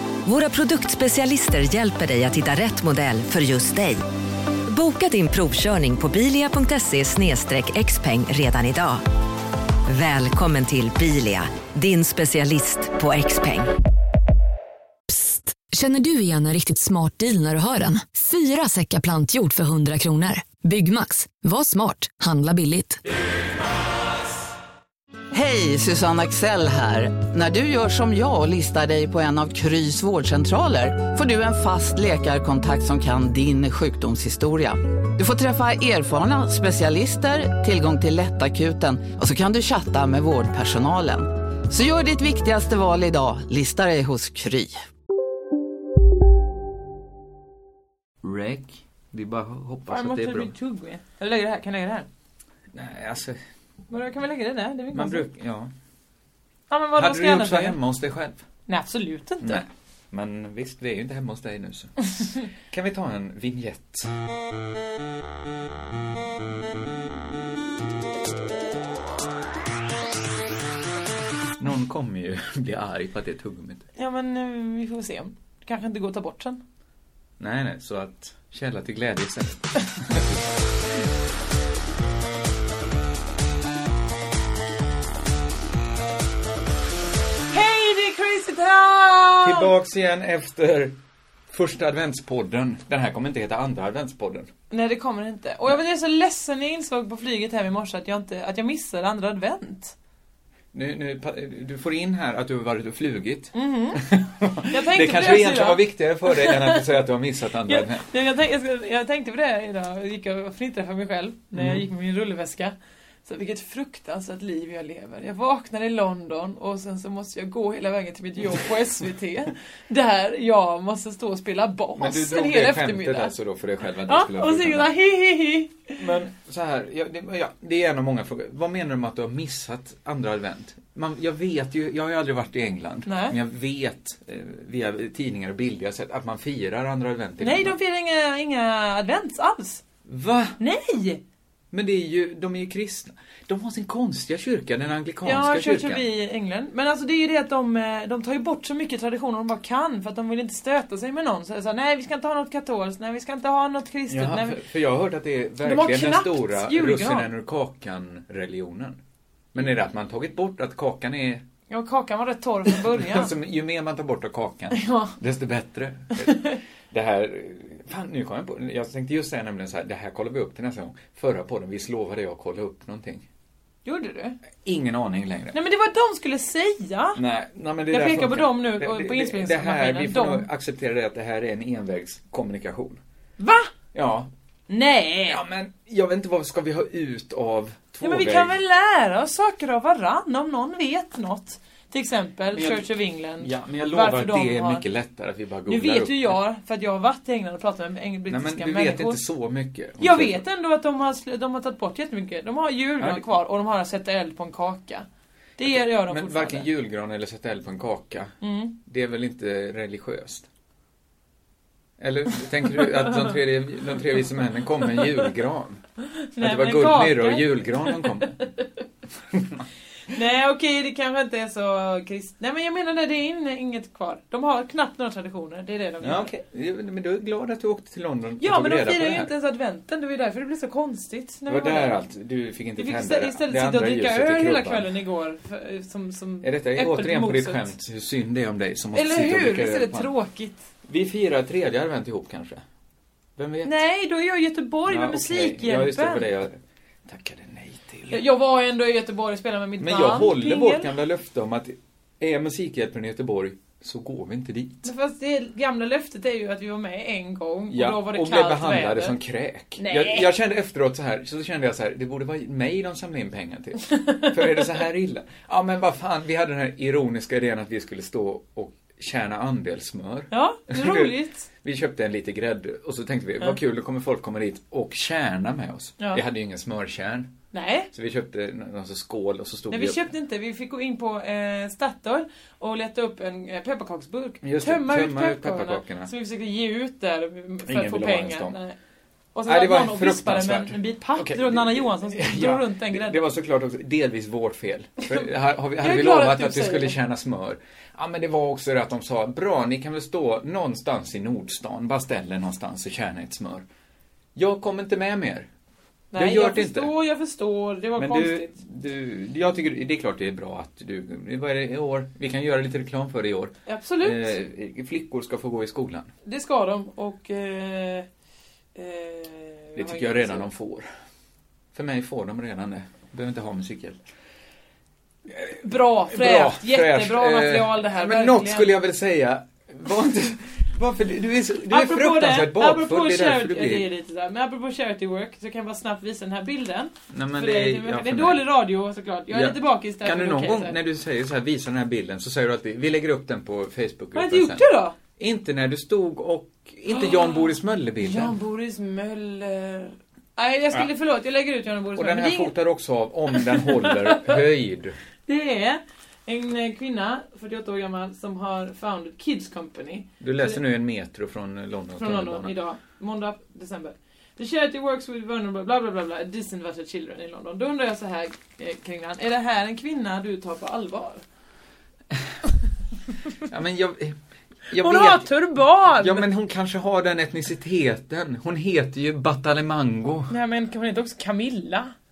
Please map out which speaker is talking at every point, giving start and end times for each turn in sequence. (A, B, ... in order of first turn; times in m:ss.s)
0:00.2-0:04.0 A
0:04.7-0:09.0 A
0:09.9-0:13.7 A
0:15.1-0:23.0 B
0:25.3-0:44.8 C
0:48.2-0:50.5 D
0:49.9-0:52.1 E
0:52.7-0:53.4 D
0:53.9-0:55.3 E
0:54.9-0:55.7 D
0:56.7-0:57.8 E
0:57.0-0:58.4 D
0:58.7-0:59.6 E
0:59.4-1:02.0 D
1:02.7-1:04.1 D
1:11.6-1:13.8 D
1:14.0-1:16.6 E
1:17.4-1:20.4 D
1:27.5-1:29.7 E
1:29.4-1:31.0 D
1:31.5-1:34.5 D
1:34.7-1:39.9 E
1:40.7-1:48.0 D
1:43.5-1:46.8 E
1:47.6-2:03.3 E
1:51.5-1:51.8 D
2:02.0-2:04.9 D
2:04.1-2:06.0 E
2:06.0-2:17.8 D
2:13.0-2:13.4 E
2:17.4-2:19.8 E
2:20.0-2:20.6 D
2:20.6-2:21.2 E
2:21.7-2:26.0 D
2:25.2-2:34.6 E
2:34.1-2:39.0 D
2:35.6-2:37.3 E
2:39.5-2:41.4 D
2:41.7-2:43.3 E
2:42.8-2:53.3 D
2:44.7-2:45.1 E
2:46.1-2:46.6 E
2:53.8-2:54.4 E
2:54.6-2:55.6 D
2:55.5-2:57.2 E
2:57.2-3:03.0 D
2:57.9-3:00.5 E
3:03.4-3:03.7 E
3:03.9-3:04.3 D
3:04.7-3:05.4 E
3:05.3-3:08.6 D
3:08.0-3:14.8 E
3:12.5-3:16.4 D
3:15.7-3:19.2 E
3:18.3-3:20.4 D
3:20.0-3:25.1 E
3:23.0-3:23.3 D
3:25.6-3:26.7 E
3:25.6-3:30.5 D
3:28.4-3:28.7 E
3:32.0-3:35.8 D
3:36.3-3:38.5 E
3:36.4-3:38.4 D
3:39.3-3:39.6 D
3:40.1-3:46.3 E
3:46.0-3:49.3 D
3:48.4-3:52.0 E
3:51.5-3:55.0 D
3:52.8-3:57.7 E
3:56.4-4:00.1 D
3:58.9-4:00.6 E
4:00.8-4:02.6 D
4:03.4-4:03.8 D
4:03.6-4:06.3 E
4:04.9-4:08.2 D
4:08.1-4:10.9 E
4:09.8-4:14.9 D
4:14.8-4:19.1 E
4:17.7-4:37.3 D
4:19.8-4:20.3 E
4:23.9-4:24.7 E
4:30.3-4:31.5 E
4:37.5-4:37.9 E
4:37.9-4:40.0 D
4:39.7-4:48.8 E
4:44.4-4:46.1 D
4:47.6-4:48.6 D
4:49.3-4:53.2 E
4:49.4-5:03.6 D
4:55.8-4:57.0 E
5:04.3-5:05.5 D
5:06.1-5:08.6 E
5:06.1-5:06.9 D
5:08.0-5:16.1 D
5:13.6-5:14.3 E
5:16.2-5:18.0 E
5:18.7-5:20.5 E
5:19.8-5:20.9 D
5:21.7-5:24.0 D
5:25.4-5:28.7 E
5:26.1-5:33.8 D
5:31.7-5:40.8 E
5:37.1-5:38.5 D
5:39.3-5:44.6 D
5:44.1-5:45.0 E
5:45.2-5:48.4 D
5:46.9-5:52.5 E
5:52.0-5:55.0 D
5:53.3-5:54.4 E
5:55.2-6:00.6 E
6:00.2-6:02.6 D
6:02.0-6:11.2 E
6:13.4-6:15.3 D
6:14.8-6:16.3 E
6:15.9-6:20.3 D
6:20.3-6:21.9 E